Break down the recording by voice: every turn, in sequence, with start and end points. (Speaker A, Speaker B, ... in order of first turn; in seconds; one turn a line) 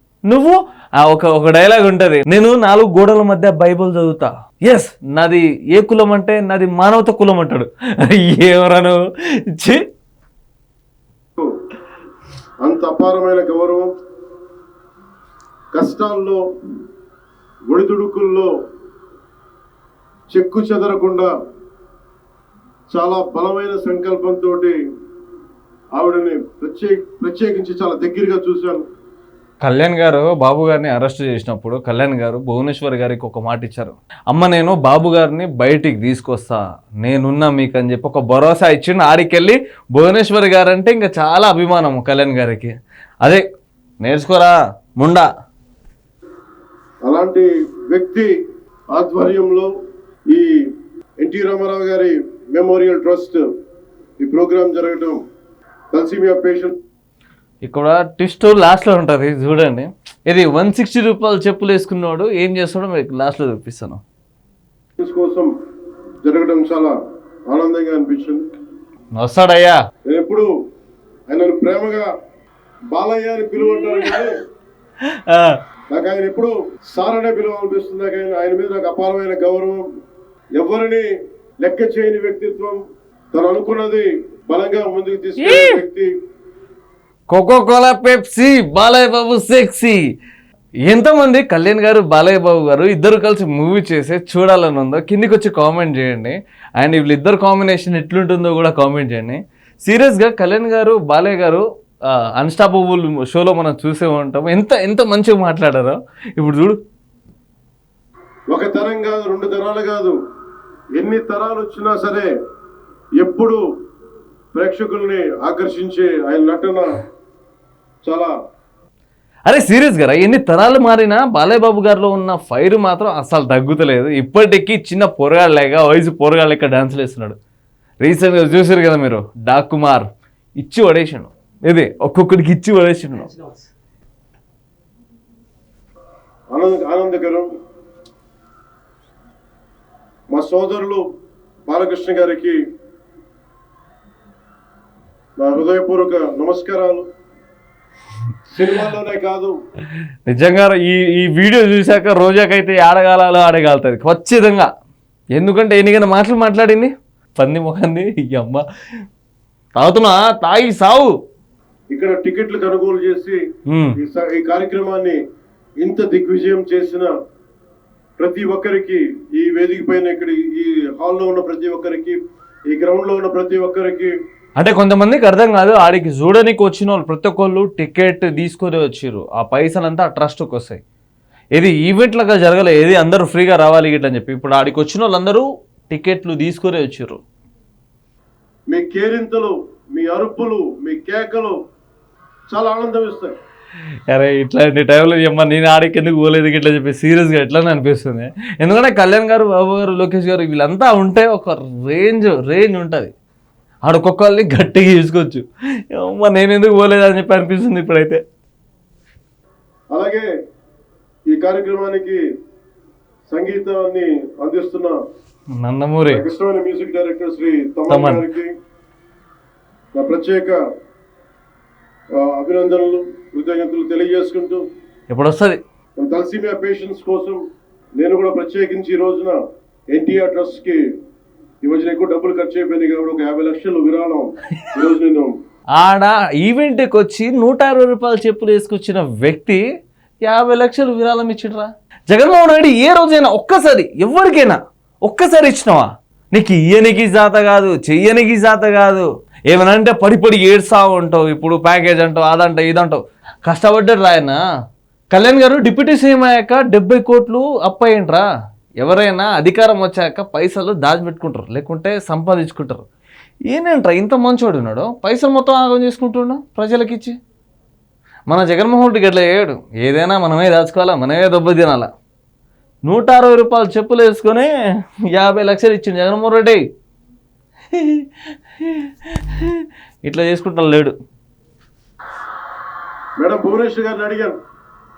Speaker A: 0.3-9.0
Speaker A: 9.5-9.8
Speaker B: 12.6-13.9
Speaker B: 15.7-16.4
Speaker B: 17.7-18.5
Speaker B: 20.3-21.3
Speaker B: 22.9-24.7
Speaker B: 25.9-28.8
Speaker A: 29.6-43.4
Speaker A: 44.0-45.3
Speaker B: 47.0-48.3
Speaker B: 48.9-49.7
Speaker B: 51.2-53.4
Speaker B: 54.2-55.2
Speaker B: 55.9-56.8
Speaker A: 57.6-64.0
Speaker B: 65.0-65.5
Speaker B: 66.2-66.9
Speaker B: 67.5-68.4
Speaker A: 69.1-69.8
Speaker B: 70.0-70.5
Speaker B: 71.3-72.1
Speaker B: 72.9-74.3
Speaker A: 75.1-75.6
Speaker B: 75.9-79.8
Speaker B: 80.5-81.0
Speaker B: 81.6-82.8
Speaker B: 83.3-86.1
Speaker A: 85.4-85.8
Speaker A: 87.3-90.0
Speaker A: 90.8-106.8
Speaker B: 108.5-110.2
Speaker B: 111.0-112.3
Speaker B: 113.2-113.6
Speaker B: 114.5-116.8
Speaker B: 118.0-118.3
Speaker A: 119.5-127.4
Speaker A: 128.0-130.1
Speaker A: 130.6-133.4
Speaker B: 136.5-137.5
Speaker B: 140.3-141.0
Speaker B: 141.7-142.6
Speaker B: 145.4-147.0
Speaker B: 148.5-149.5
Speaker A: 150.3-154.7
Speaker A: 155.3-158.6
Speaker A: 159.8-161.1
Speaker B: 161.9-163.4
Speaker A: 163.7-164.0
Speaker B: 163.9-165.2
Speaker B: 165.8-167.1
Speaker B: 168.2-172.2
Speaker B: 172.7-174.1
Speaker A: 174.6-180.8
Speaker A: 181.5-187.2
Speaker B: 188.7-191.6
Speaker B: 192.5-193.3
Speaker A: 194.1-203.1
Speaker A: 203.8-208.2
Speaker B: 209.9-210.3
Speaker B: 211.3-212.2
Speaker B: 213.3-214.9
Speaker A: 215.6-216.2
Speaker B: 216.1-218.5
Speaker A: 217.9-218.2
Speaker B: 219.9-220.6
Speaker B: 222.2-224.6
Speaker A: 225.1-225.6
Speaker B: 226.0-227.4
Speaker B: 228.0-229.4
Speaker B: 229.9-230.8
Speaker B: 231.6-235.3
Speaker A: 235.8-239.6
Speaker A: 240.2-254.4
Speaker A: 255.1-258.2
Speaker A: 258.8-262.8
Speaker A: 263.5-267.1
Speaker A: 268.3-271.9
Speaker A: 272.8-274.5
Speaker A: 275.1-276.6
Speaker A: 277.7-280.9
Speaker B: 283.2-284.3